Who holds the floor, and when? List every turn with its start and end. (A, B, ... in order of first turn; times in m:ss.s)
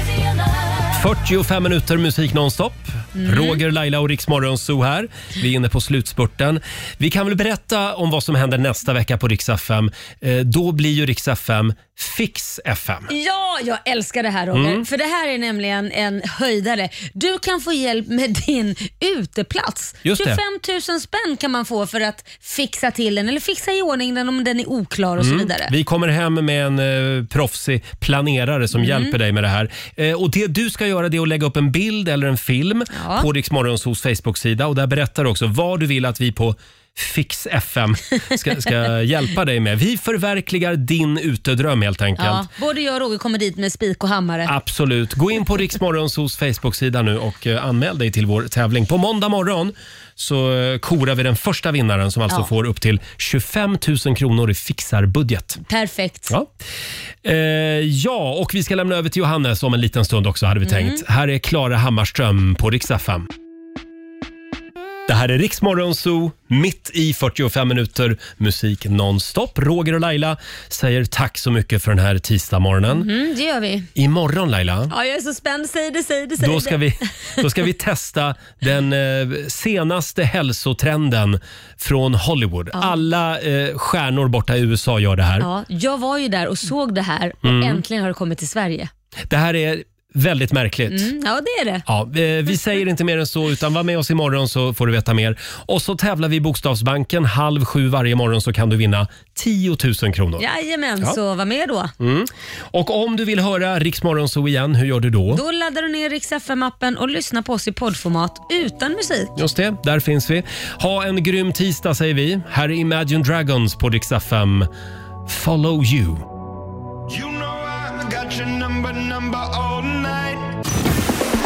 0:00.9-0:13.1 A
0:03.2-0:03.6 B
0:13.1-0:25.7 B
0:14.5-0:14.8 A
0:20.0-0:20.4 A
0:25.2-0:42.5 A
0:28.7-0:29.1 B
0:32.9-0:33.3 B
0:42.2-0:44.5 B
0:44.4-0:55.6 A
0:55.7-0:56.3 B
0:57.2-1:03.3 A
1:00.6-1:01.0 B
1:05.1-1:13.1 A
1:12.9-1:13.9 B
1:14.0-1:14.9 A
1:14.9-1:16.8 B
1:16.4-1:25.5 A
1:25.4-1:28.9 B
1:27.4-1:27.8 A
1:29.3-1:31.1 A
1:30.9-1:31.8 B
1:31.9-1:40.4 A
1:40.4-1:41.9 B
1:42.0-1:45.4 A
1:45.3-1:49.4 B
1:49.4-1:54.7 A
1:55.2-1:56.2 A
1:57.1-2:00.5 C